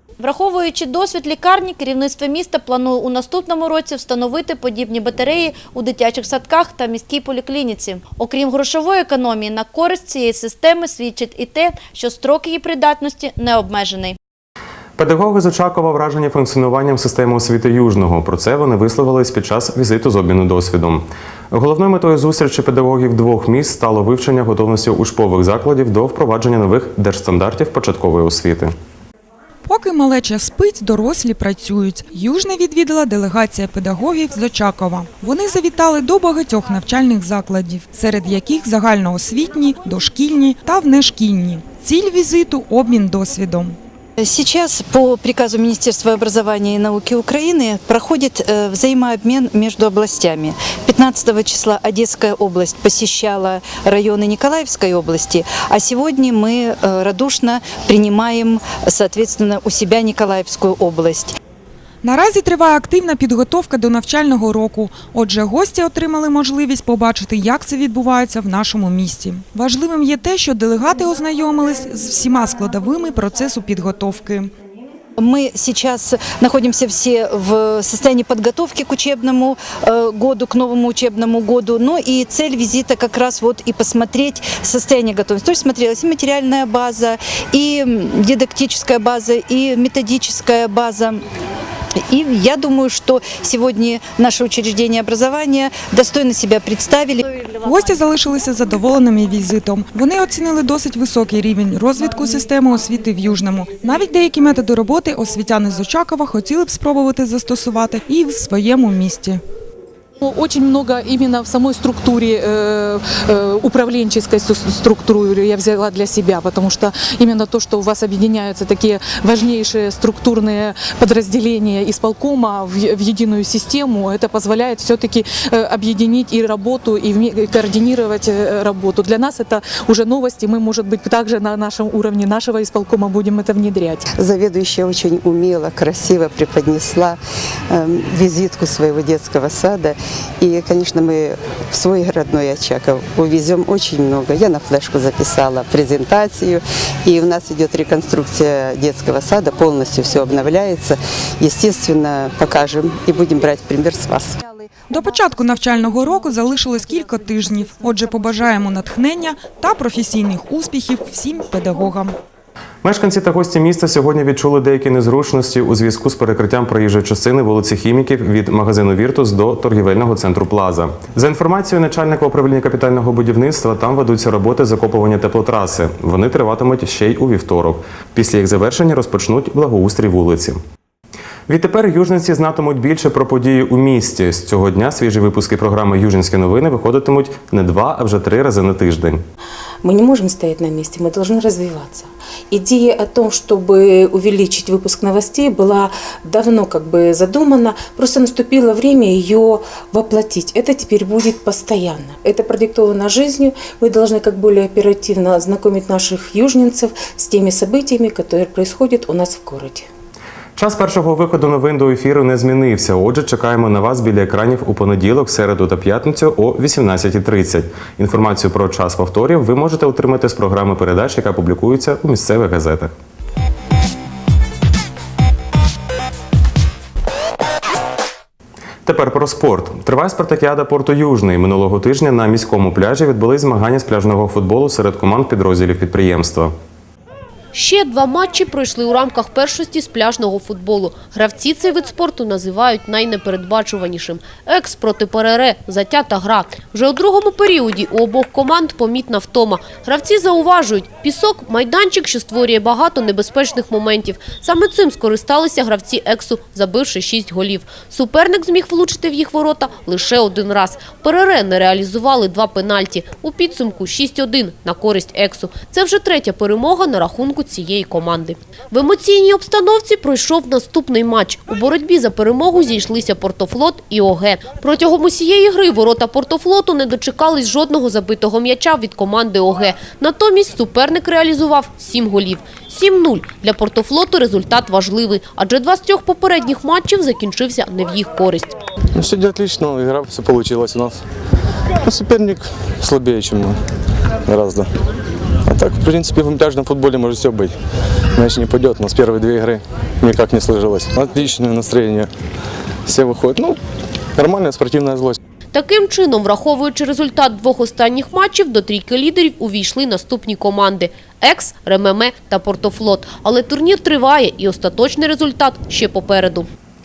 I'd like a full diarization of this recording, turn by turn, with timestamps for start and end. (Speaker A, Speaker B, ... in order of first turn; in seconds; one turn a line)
Speaker A: 0.2-14.2
Speaker B: 15.0-28.7
Speaker C: 29.7-43.8
Speaker D: 44.2-61.3
Speaker C: 62.0-74.5
Speaker D: 75.2-91.2
Speaker D: 92.1-97.2
Speaker C: 97.6-109.4
Speaker E: 110.2-134.0
Speaker F: 134.2-137.2
Speaker F: 137.7-154.3
Speaker C: 154.9-162.1
Speaker B: 162.8-180.6
Speaker B: 181.5-189.2
Speaker G: 189.8-209.8
Speaker B: 210.6-222.9
Speaker B: 228.8-236.5
Speaker H: 237.5-288.5
Speaker I: 289.0-291.0
Speaker I: 291.9-293.6
Speaker I: 294.3-294.7
Speaker I: 295.5-297.5
Speaker I: 298.1-302.1
Speaker I: 302.9-303.6
Speaker I: 304.2-305.2
Speaker H: 305.5-316.5